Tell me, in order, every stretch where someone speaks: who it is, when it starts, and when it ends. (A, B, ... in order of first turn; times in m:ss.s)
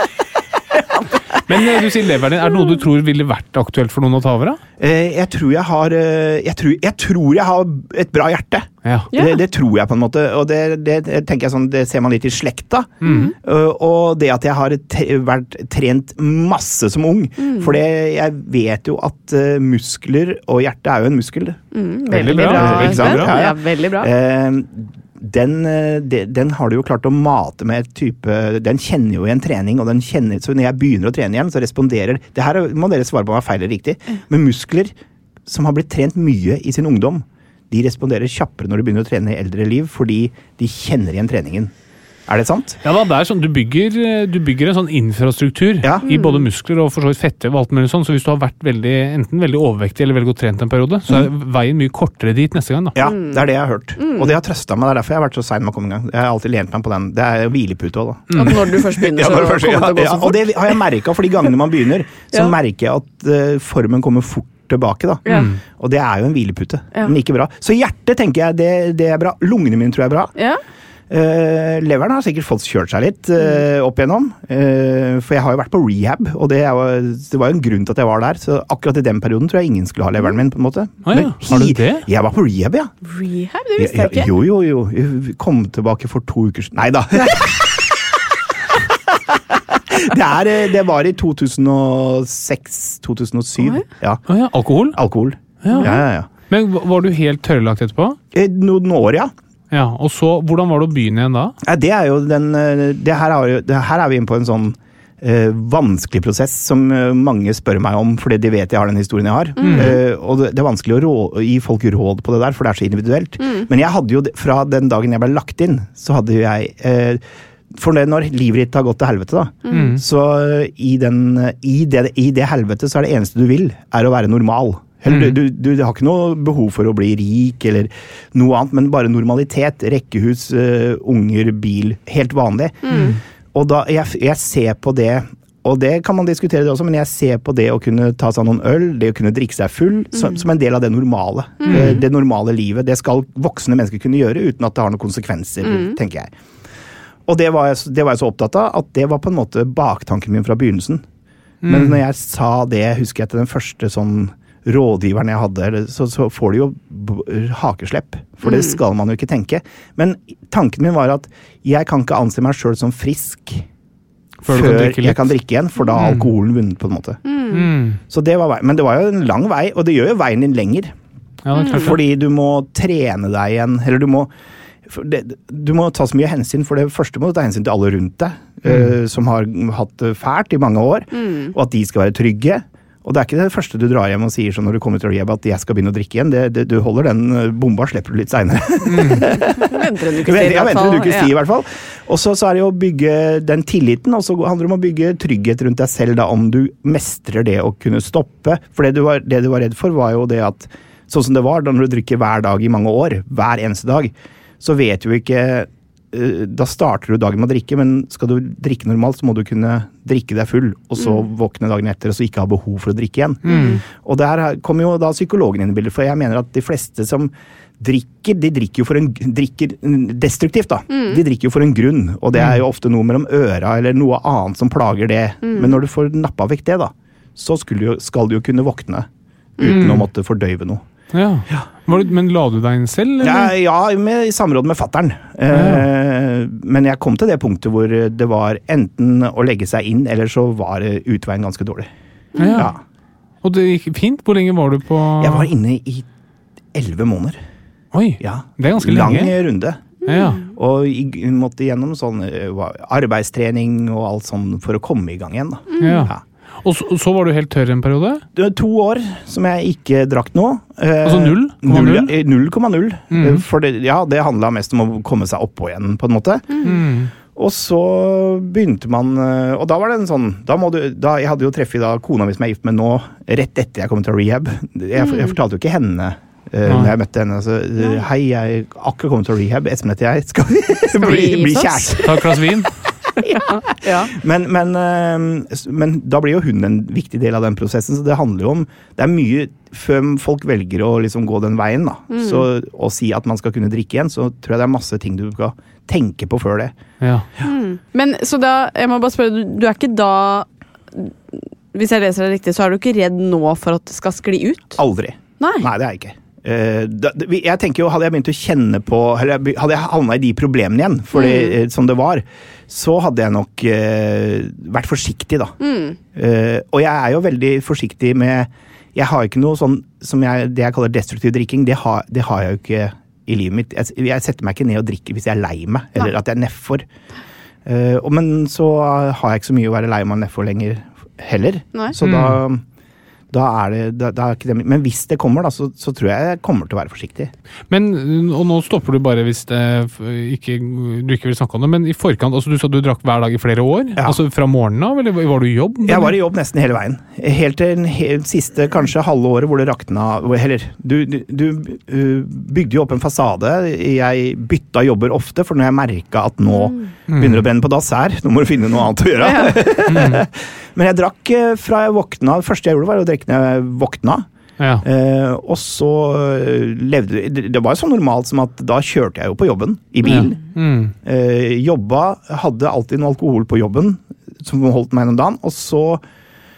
0:01.5-0:04.6 A
0:04.8-0:34.9 B
0:08.8-0:09.1 A
0:09.1-0:09.4 C
0:13.0-0:13.3 A
0:13.0-0:13.3 C
0:17.4-0:17.8 C
0:21.7-0:24.1 C
0:22.1-0:23.4 A
0:35.5-0:41.7 B
0:42.3-0:42.8 B
0:42.8-0:53.0 A
0:45.8-0:46.1 B
0:46.0-0:46.5 C
0:53.0-1:10.3 B
0:53.0-0:54.4 C
0:58.3-0:58.6 A
0:58.3-1:00.8 C
1:05.2-1:05.5 C
1:05.3-1:05.6 A
1:10.4-1:10.6 C
1:11.1-1:22.9 B
1:21.0-1:22.1 A
1:23.0-1:24.3 C
1:23.8-1:27.7 B
1:29.9-1:34.2 B
1:33.6-1:33.8 C
1:34.3-1:35.0 A
1:34.9-1:36.3 B
1:35.6-1:38.2 A
1:35.7-1:36.0 C
1:38.3-1:39.3 B
1:39.7-1:41.6 A
1:41.6-2:13.0 B
1:49.6-1:50.0 C
1:49.6-1:50.0 A
1:53.4-1:53.7 C
1:59.6-2:00.0 C
1:59.7-2:00.0 A
2:05.1-2:05.4 A
2:12.8-2:13.2 C
2:12.9-2:13.2 A
2:13.5-2:26.3 B
2:20.1-2:20.4 C
2:21.6-2:22.0 C
2:21.7-2:22.0 A
2:25.6-2:26.0 C
2:27.3-2:31.0 B
2:31.6-2:32.0 A
2:31.6-2:43.7 B
2:38.4-2:38.8 C
2:44.4-2:45.4 A
2:44.4-2:47.2 B
2:45.9-2:46.3 A
2:47.2-2:47.7 C
2:47.5-2:48.0 A
2:48.1-2:50.9 B
2:51.4-2:52.0 A
2:51.5-2:52.0 C
2:51.6-2:54.3 B
2:54.9-3:49.1 B
2:58.7-2:58.9 A
3:01.1-3:01.5 C
3:08.9-3:09.3 A
3:09.6-3:11.3 C
3:31.0-3:31.2 C
3:33.4-3:33.8 A
3:33.5-3:33.8 C
3:40.9-3:41.2 C
3:42.4-3:42.6 A
3:45.4-3:45.8 C
3:49.6-3:49.9 C
3:49.6-3:50.8 B
3:49.7-3:50.1 A
3:51.1-3:53.5 A
3:53.2-4:01.9 B
3:55.5-3:55.9 A
4:02.4-4:02.7 C
4:02.4-4:02.7 A
4:02.5-4:02.8 B
4:03.4-4:05.5 A
4:05.2-4:06.1 B
4:06.7-4:07.4 B
4:07.9-4:09.4 A
4:08.2-4:16.2 B
4:10.0-4:10.4 C
4:10.0-4:10.4 A
4:15.7-4:16.1 C
4:15.8-4:18.2 A
4:18.3-4:26.6 B
4:21.0-4:22.1 A
4:23.1-4:23.4 A
4:26.5-4:26.8 C
4:26.6-4:27.1 A
4:27.2-4:42.4 B
4:35.0-4:35.4 C
4:36.6-4:36.9 A
4:37.8-4:38.0 C
4:40.9-4:42.2 C
4:42.0-4:42.8 A
4:43.2-4:44.1 C
4:43.2-4:56.7 B
4:52.1-4:52.5 C
4:57.0-4:57.3 A
4:57.4-5:04.8 C
5:04.8-5:15.5 B
5:05.4-5:05.7 C
5:11.1-5:11.6 C
5:15.6-5:16.0 C
5:16.1-5:26.8 B
5:27.6-5:32.6 B
5:32.0-5:32.4 A
5:33.3-5:37.3 B
5:37.7-5:46.2 A
5:45.8-6:04.2 B
5:56.6-5:56.8 C
5:57.1-5:57.4 A
5:59.2-5:59.6 C
5:59.9-6:00.2 A
6:04.6-6:04.8 A
6:04.8-6:10.4 B
6:10.0-6:10.9 A
6:11.0-6:16.0 B